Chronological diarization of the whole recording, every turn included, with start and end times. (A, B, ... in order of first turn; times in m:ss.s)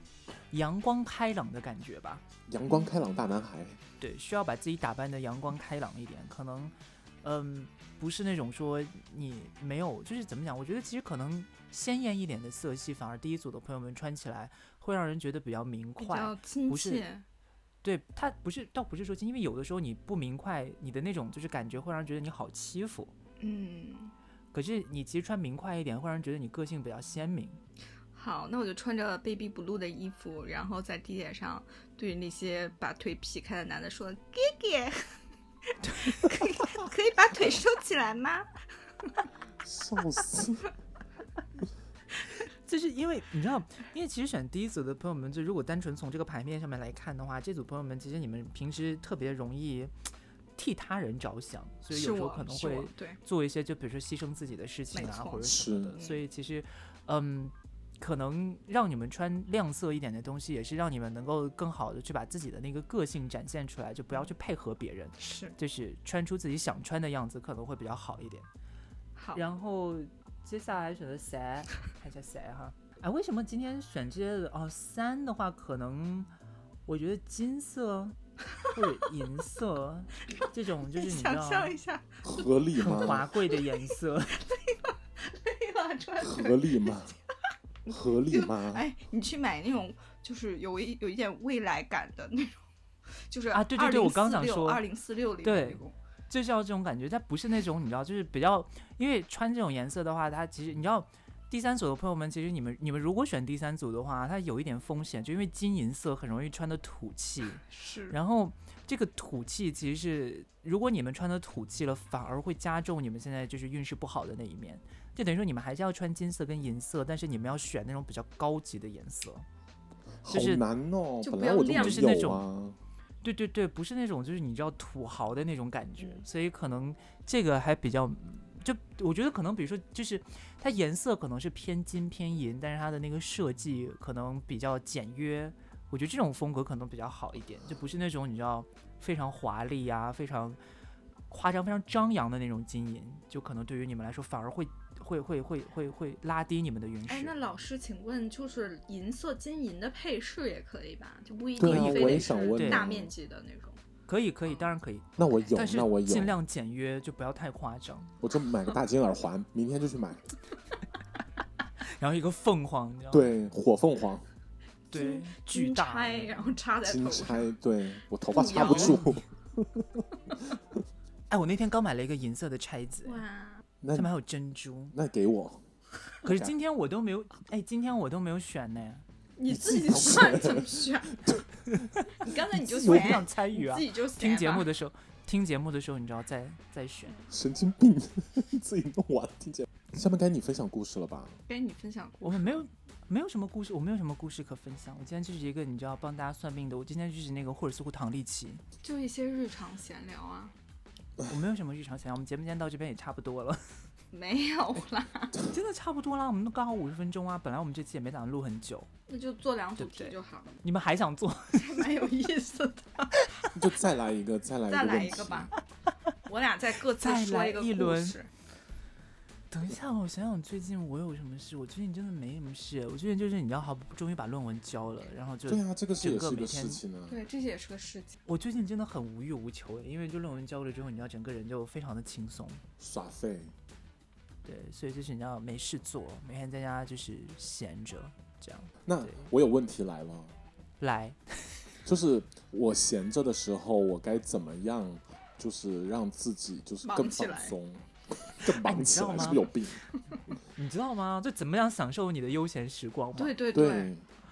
0:00.5-0:02.2 A
0:02.5-0:03.8 B
0:04.0-0:17.0 A
0:16.0-0:17.2 C
0:17.8-0:23.1 A
0:23.4-0:24.1 C
0:24.5-0:27.6 A
0:28.1-0:35.1 C
0:35.7-0:38.5 C
0:39.6-0:40.7 B
0:42.6-0:49.9 A
0:50.6-1:08.5 A
0:51.9-0:53.2 C
0:54.9-0:56.2 C
0:55.4-0:56.0 B
1:05.2-1:05.6 C
1:09.2-1:09.4 C
1:09.3-1:16.3 A
1:16.9-1:21.7 A
1:20.9-1:22.4 C
1:22.2-1:23.3 B
1:22.8-1:24.4 A
1:24.4-1:27.1 C
1:26.2-1:27.2 B
1:27.9-1:28.8 B
1:28.3-1:32.6 C
1:33.3-1:35.9 C
1:33.5-1:34.8 A
1:35.4-1:59.5 A
1:47.7-1:48.2 C
2:00.2-2:02.8 B
2:00.3-2:00.6 A
2:01.2-2:02.1 C
2:01.8-2:02.4 A
2:03.2-2:20.6 A
2:21.3-2:27.3 A
2:27.1-2:33.8 C
2:31.6-2:33.1 B
2:31.6-2:32.8 A
2:34.1-2:38.1 A
2:35.2-2:36.4 B
2:38.2-2:40.3 B
2:41.8-2:43.3 A
2:43.1-2:44.2 B
2:44.9-2:46.5 A
2:44.9-2:47.5 C
2:46.8-2:50.6 B
2:48.3-2:49.0 C
2:48.6-2:49.2 A
2:51.3-2:53.2 A
2:53.0-2:53.6 C
2:53.8-2:54.1 B
2:53.9-2:55.0 A
2:54.9-2:55.6 B
2:56.2-2:59.0 A
2:56.2-2:56.5 B
2:59.4-3:01.4 C
2:59.5-3:01.5 B
3:01.7-3:07.2 A
3:02.2-3:04.7 C
3:07.3-3:11.4 B
3:11.5-3:12.6 C
3:12.2-3:18.6 A
3:18.8-3:20.5 C
3:21.3-3:23.6 A
3:24.1-3:25.4 C
3:25.5-3:28.9 A
3:29.1-3:30.6 C
3:29.8-3:31.8 A
3:31.5-3:33.2 C
3:33.5-3:35.5 B
3:34.7-3:35.5 C
3:36.2-3:38.3 C
3:37.0-3:38.2 A
3:39.5-3:46.8 A
3:45.5-3:47.2 B
3:47.1-3:48.2 C
3:48.3-3:52.6 A
3:52.8-3:53.5 B
3:54.4-3:59.3 A
3:58.8-4:00.4 B
4:00.8-4:01.6 A
4:01.8-4:09.8 B
4:06.8-4:07.5 C
4:08.5-4:09.5 A
4:10.6-4:13.4 A
4:13.2-4:13.9 C
4:13.5-4:14.0 B